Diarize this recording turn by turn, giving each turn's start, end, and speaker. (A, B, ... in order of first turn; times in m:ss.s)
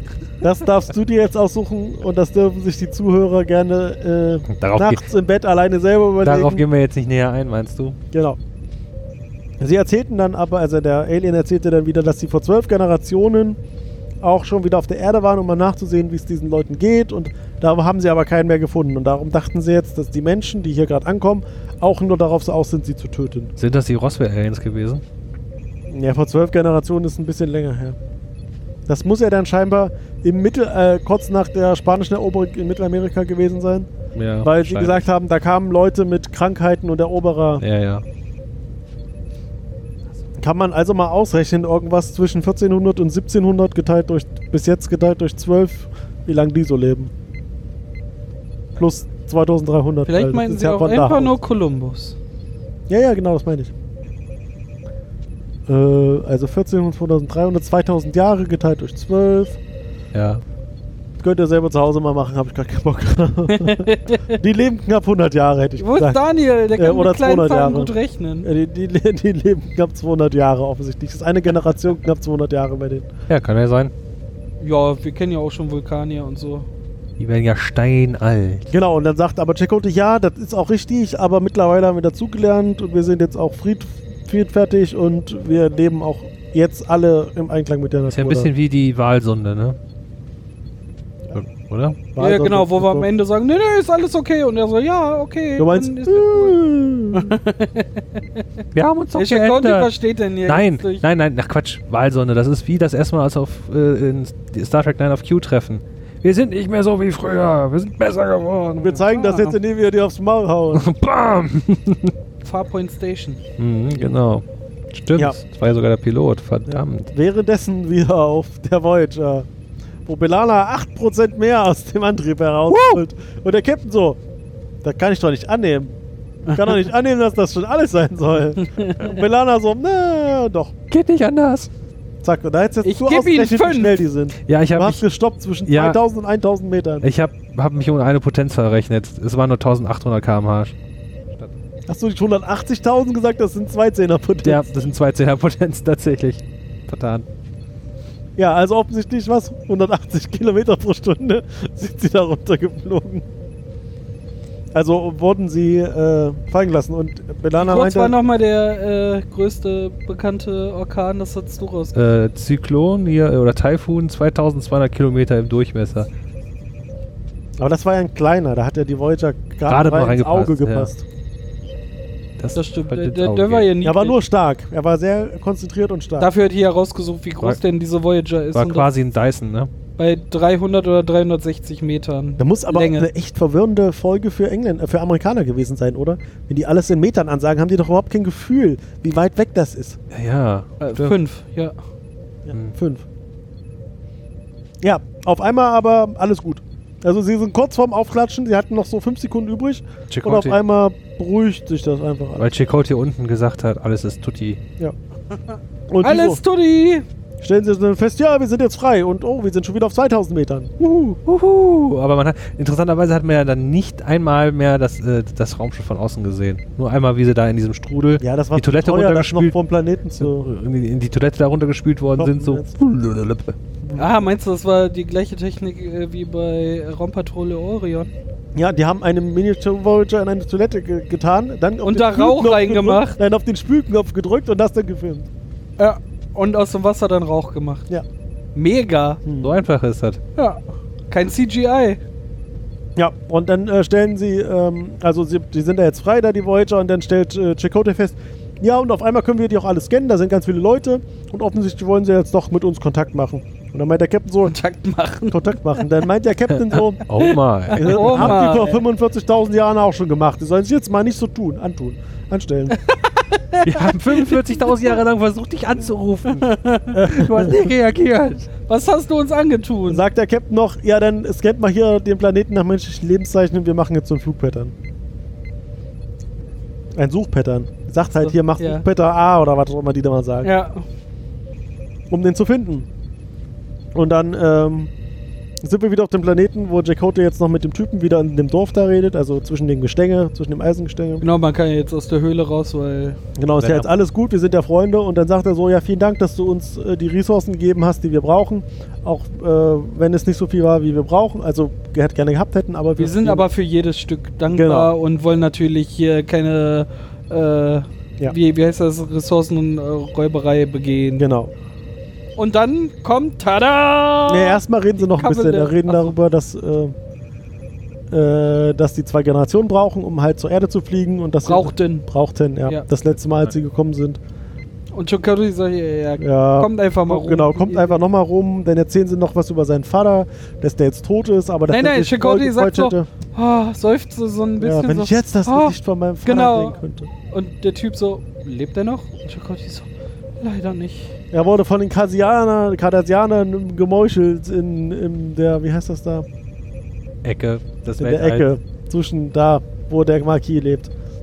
0:00.4-0:06.6 A
0:04.5-0:05.0 B
0:06.2-0:08.0 B
0:08.1-0:08.4 A
0:09.6-0:13.6 A
0:14.2-0:23.5 A
0:23.6-0:25.0 B
0:25.9-0:28.0 A
0:28.9-0:33.9 A
0:34.2-0:35.1 B
0:34.4-0:37.6 A
0:37.6-0:38.0 B
0:40.4-0:47.1 A
0:48.8-0:51.4 A
0:50.1-0:52.2 C
0:52.9-0:53.7 A
0:55.7-0:59.6 A
1:00.1-1:00.4 B
1:01.2-1:06.2 A
1:03.5-1:04.4 C
1:05.8-1:08.5 C
1:06.8-1:13.1 A
1:13.3-1:13.9 B
1:14.6-1:16.7 C
1:17.2-1:18.7 B
1:18.7-1:28.5 A
1:28.1-1:29.8 B
1:31.3-1:32.0 B
1:32.1-1:33.1 A
1:32.2-1:36.6 C
1:35.6-1:37.4 A
1:37.1-1:38.4 C
1:38.7-1:39.9 B
1:39.1-1:41.0 C
1:40.5-1:49.0 B
1:48.8-1:50.9 A
1:49.1-1:49.5 C
1:50.7-1:52.1 B
1:52.4-1:53.4 C
1:53.6-1:57.1 B
1:56.7-1:59.5 A
2:00.1-2:04.2 A
2:02.7-2:03.0 B
2:04.8-2:05.9 A
2:06.5-2:10.7 A
2:08.6-2:09.1 C
2:10.9-2:11.7 B
2:12.2-2:17.1 A
2:12.8-2:14.0 C
2:14.5-2:15.0 B
2:15.7-2:16.0 B
2:17.0-2:20.8 B
2:21.9-2:24.7 A
2:24.4-2:27.2 B
2:28.4-2:33.3 A
2:34.7-2:38.2 A
2:37.6-2:42.0 C
2:42.0-2:46.1 B
2:47.6-2:51.0 A
2:49.7-2:50.9 B
2:52.4-2:53.7 B
2:52.5-2:54.2 C
2:53.8-2:56.3 A
2:56.2-2:58.9 C
2:58.5-2:59.7 B
3:00.0-3:03.1 C
3:02.4-3:10.0 A
3:10.1-3:11.2 B
3:10.8-3:11.8 C
3:12.4-3:13.0 A
3:14.8-3:22.5 A
3:20.1-3:20.6 B
3:22.4-3:24.6 B
3:25.9-3:26.4 A
3:26.0-3:27.1 C
3:27.4-3:30.9 A
3:31.2-3:39.6 B
3:38.2-3:40.5 A
3:40.2-3:43.6 B
3:42.2-3:42.7 A
3:43.8-3:44.3 A
3:44.0-3:48.1 C
3:48.6-3:55.3 A
3:51.8-3:53.2 C
3:55.8-3:57.9 C
3:58.6-3:59.2 C
3:59.2-3:59.6 A
3:59.4-4:00.2 B
4:00.4-4:02.0 C
4:03.0-4:14.6 A
4:14.5-4:15.8 C
4:15.3-4:17.1 A
4:17.1-4:18.6 B
4:17.2-4:18.8 C
4:17.7-4:22.8 A
4:22.7-4:25.0 C
4:23.6-4:28.5 B
4:26.4-4:27.0 C
4:26.9-4:27.7 A
4:28.7-4:30.0 C
4:29.9-4:34.8 A
4:37.0-4:40.5 A
4:38.2-4:38.8 C
4:40.4-4:40.8 C
4:42.1-4:42.9 A
4:44.0-4:44.9 A
4:45.6-4:51.2 A
4:51.2-4:53.2 C
4:53.4-5:03.5 A
4:53.6-4:53.9 B
5:03.0-5:11.3 C
5:04.5-5:04.9 A
5:11.2-5:11.5 A
5:12.4-5:16.1 C
5:14.3-5:17.0 A
5:18.1-5:24.2 A
5:21.4-5:22.1 C
5:24.9-5:28.0 C
5:26.2-5:33.1 A
5:31.7-5:36.8 C
5:34.6-5:37.1 A
5:37.3-5:39.9 C
5:40.4-5:41.2 C
5:41.3-5:46.3 A
5:47.2-5:48.5 B
5:48.0-5:50.9 A